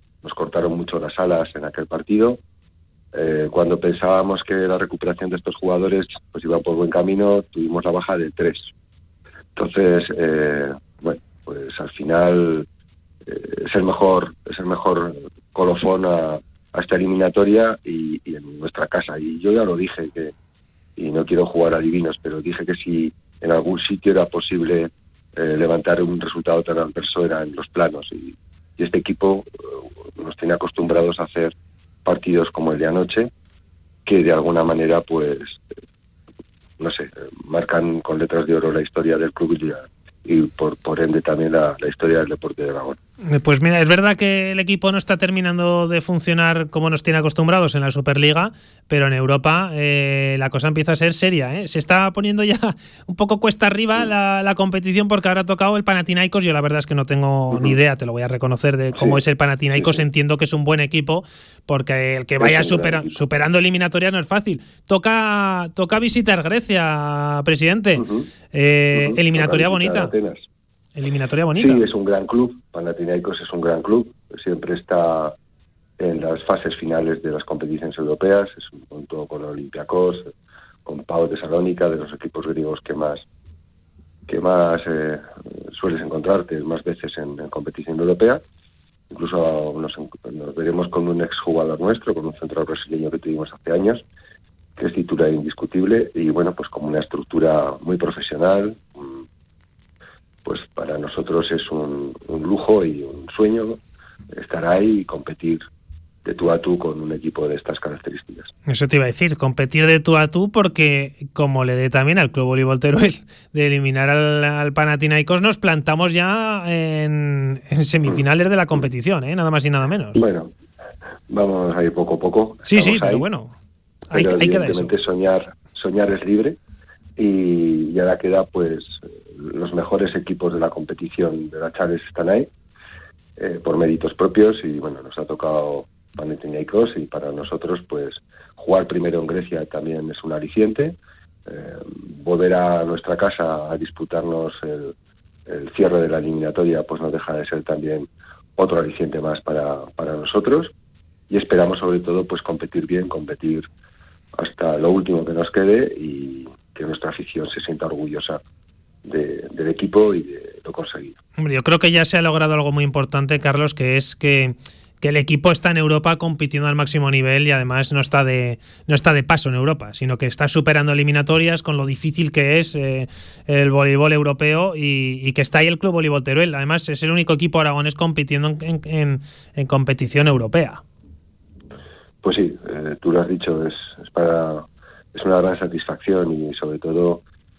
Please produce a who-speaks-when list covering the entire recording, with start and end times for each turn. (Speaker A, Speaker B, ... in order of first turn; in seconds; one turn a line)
Speaker A: 0.2-2.4
Speaker A: 3.1-8.7
Speaker A: 9.6-12.7
Speaker A: 13.2-20.3
Speaker A: 21.0-31.5
Speaker A: 32.0-33.3
Speaker A: 34.0-35.6
Speaker A: 36.8-43.0
Speaker B: 43.2-70.1
Speaker A: 57.5-57.8
Speaker A: 58.9-59.2
Speaker A: 59.7-60.0
Speaker A: 62.4-63.2
Speaker A: 68.0-68.3
Speaker A: 68.9-70.5
Speaker B: 71.0-71.8
Speaker A: 71.6-75.3
Speaker A: 76.0-80.3
Speaker A: 80.8-83.2
Speaker A: 84.3-88.4
Speaker A: 89.1-94.0
Speaker A: 94.8-99.2
Speaker A: 100.4-103.8
Speaker A: 104.3-105.6
Speaker A: 106.2-108.5
Speaker B: 108.7-120.2
Speaker A: 120.1-120.5
Speaker A: 121.3-123.3
Speaker B: 122.7-123.5
Speaker B: 124.1-124.9
Speaker A: 124.1-126.6
Speaker A: 127.2-132.5
Speaker A: 133.4-140.9
Speaker A: 141.5-144.9
Speaker A: 145.5-150.7
Speaker A: 151.3-153.7
Speaker A: 154.3-158.4
Speaker A: 159.0-161.2
Speaker B: 161.4-180.8
Speaker A: 182.2-187.2